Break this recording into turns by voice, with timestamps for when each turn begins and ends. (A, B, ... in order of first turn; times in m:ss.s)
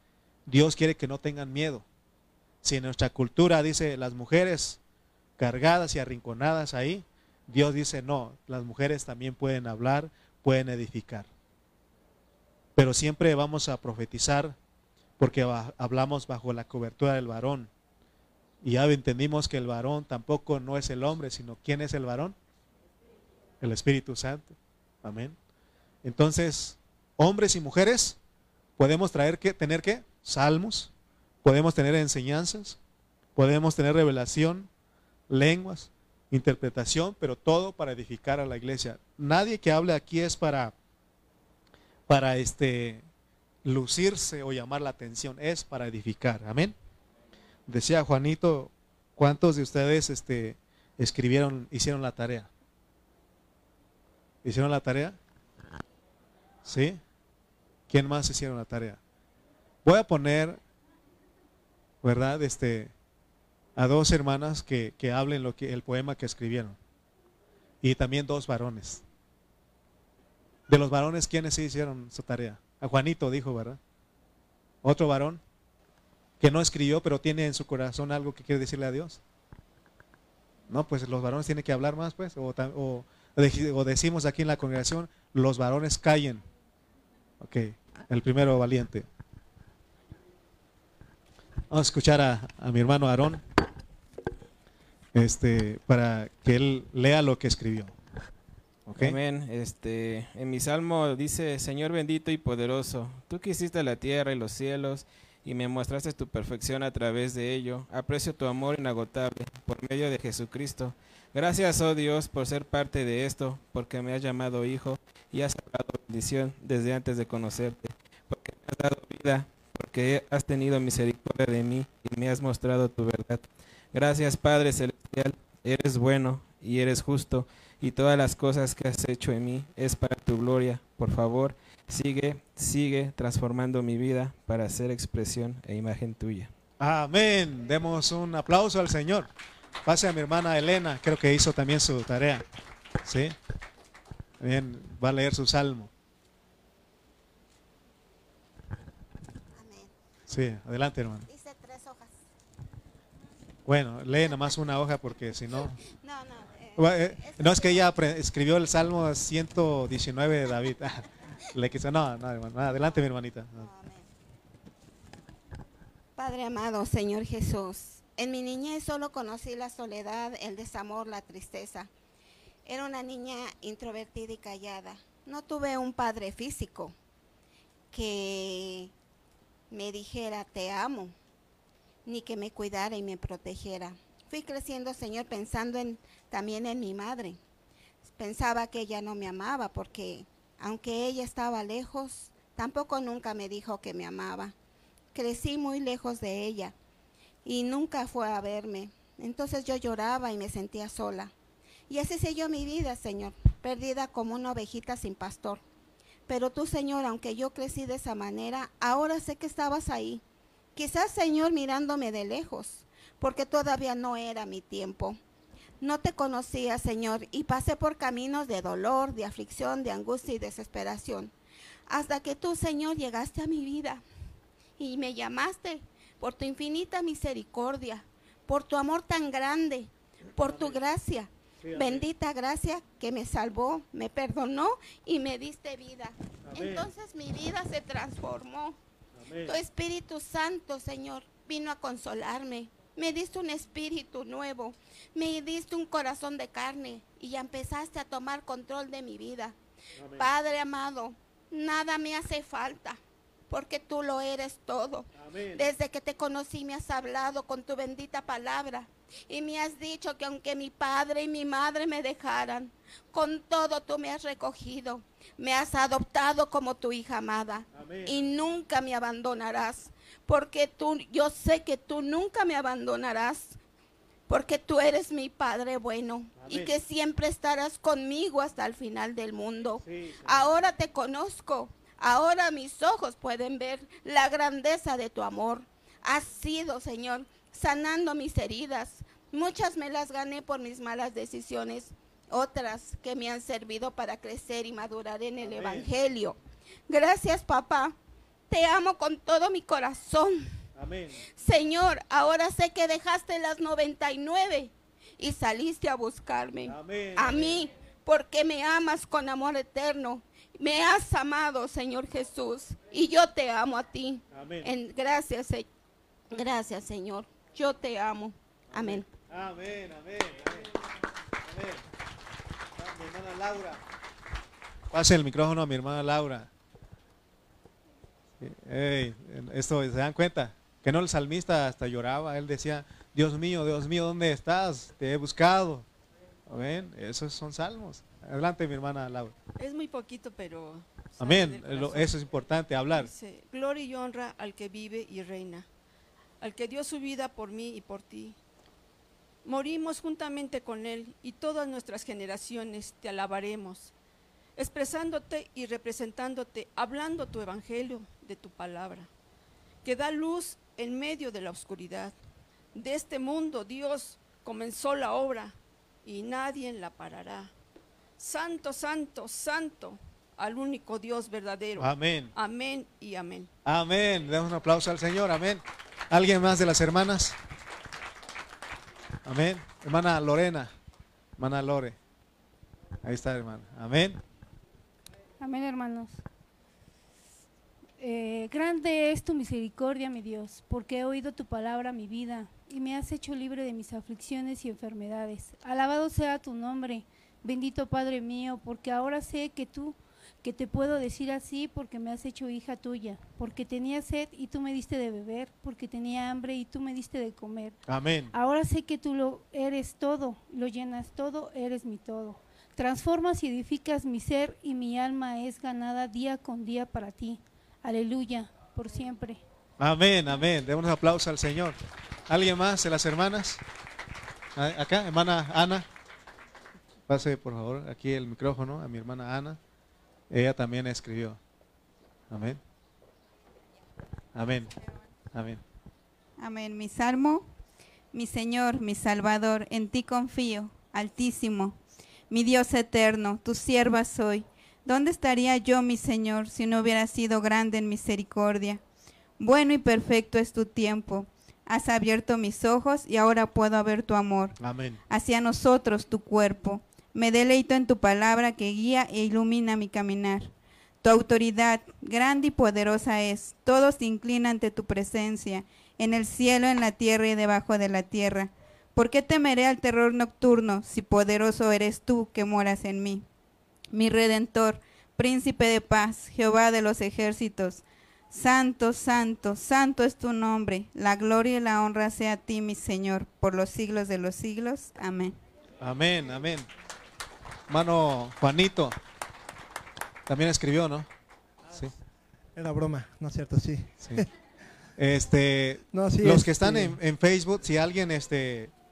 0:00.5-0:01.8 A
0:02.6-0:04.8 A
0:05.4-0:11.3 A
0:12.8-0:14.6 A
0:15.2-0:17.7 A
0:18.6-0:22.4 A
0:23.6-0:25.4 A
0:26.0-0:28.2 A
0:28.8-0:30.9 A
0:31.4-0:32.8 A
0:33.4-0:34.7 A
0:35.3-0:40.7 A
0:42.1-0:43.0 A
0:43.6-0:46.7 A
0:47.7-0:52.5 A
0:54.4-0:55.2 A
0:56.6-0:57.0 A
0:57.9-0:59.0 A
0:59.8-1:00.6 A
1:02.0-1:02.9 A
1:03.8-1:06.8 A
1:07.8-1:09.0 A
1:10.7-1:13.8 A
1:14.8-1:15.4 A
1:16.4-1:19.2 A
1:20.7-1:26.4 A
1:27.4-1:29.0 A
1:31.7-1:33.4 A
1:35.1-1:37.9 A
1:38.9-1:39.2 A
1:39.0-2:16.5 B
2:16.8-2:19.3 A
2:19.8-2:22.4 A
2:23.0-2:23.3 A
2:24.4-2:25.9 A
2:29.5-2:29.9 C
2:30.3-2:31.2 A
2:31.3-2:32.2 C
2:33.6-2:35.8 A
2:35.9-2:37.9 C
2:36.8-2:43.7 A
2:43.6-2:44.1 C
2:46.2-2:51.9 C
2:52.6-2:56.9 C
2:57.9-2:58.9 C
2:59.7-3:01.1 C
3:02.0-3:07.4 C
3:08.0-3:14.5 C
3:15.1-3:16.7 C
3:17.4-3:21.3 C
3:21.9-3:25.6 C
3:26.3-3:30.2 C
3:30.7-3:35.2 C
3:35.8-3:41.3 C
3:41.9-3:44.0 C
3:44.8-3:58.8 C
3:50.5-3:50.8 A
3:51.6-3:52.0 A
3:56.5-3:56.8 A
3:59.2-3:59.5 A
3:59.4-4:09.6 C
4:10.0-4:10.2 A
4:10.1-4:33.6 C
4:15.2-4:15.6 A
4:27.7-4:28.2 A
4:34.3-4:56.4 C
4:36.4-4:36.7 A
4:39.8-4:40.4 A
4:55.4-4:55.9 A
4:56.9-4:57.9 C
4:58.5-5:00.4 C
5:00.8-5:01.2 A
5:01.4-5:15.7 C
5:06.6-5:07.5 A
5:14.3-5:14.7 A
5:16.3-5:19.1 C
5:18.7-5:20.6 A
5:21.5-5:21.8 A
5:22.8-5:23.8 A
5:24.9-5:26.5 A
5:28.4-5:35.8 A
5:36.5-5:39.3 A
5:39.6-5:42.1 D
5:41.2-5:43.1 A
5:42.9-5:45.7 D
5:46.4-5:48.4 D
5:49.4-5:53.9 D
5:54.6-5:59.1 D
5:59.8-6:02.1 D
6:02.7-6:07.5 D
6:08.2-6:13.5 D
6:11.8-6:12.3 A
6:13.6-6:17.4 A
6:19.2-6:20.7 A
6:21.4-6:22.0 A
6:23.0-6:24.2 A
6:25.4-6:26.2 E
6:28.0-6:47.8 E
6:47.9-6:48.3 A
6:48.3-6:59.4 E
6:59.8-7:01.8 A
7:02.3-7:03.6 A
7:04.6-7:05.8 A
7:07.1-7:09.6 A
7:10.3-7:11.4 A
7:12.3-7:12.6 A
7:14.3-7:14.7 A
7:15.3-7:15.6 A
7:16.4-7:17.5 F
7:18.1-7:28.8 F
7:29.4-7:34.6 F
7:34.6-7:35.0 A
7:35.1-7:40.5 F
7:41.0-7:53.2 F
7:53.9-8:05.3 F
8:05.8-8:06.7 A
8:07.7-8:08.9 A
8:10.3-8:11.1 A
8:12.6-8:14.2 G
8:15.0-8:18.7 A
8:15.9-8:17.0 G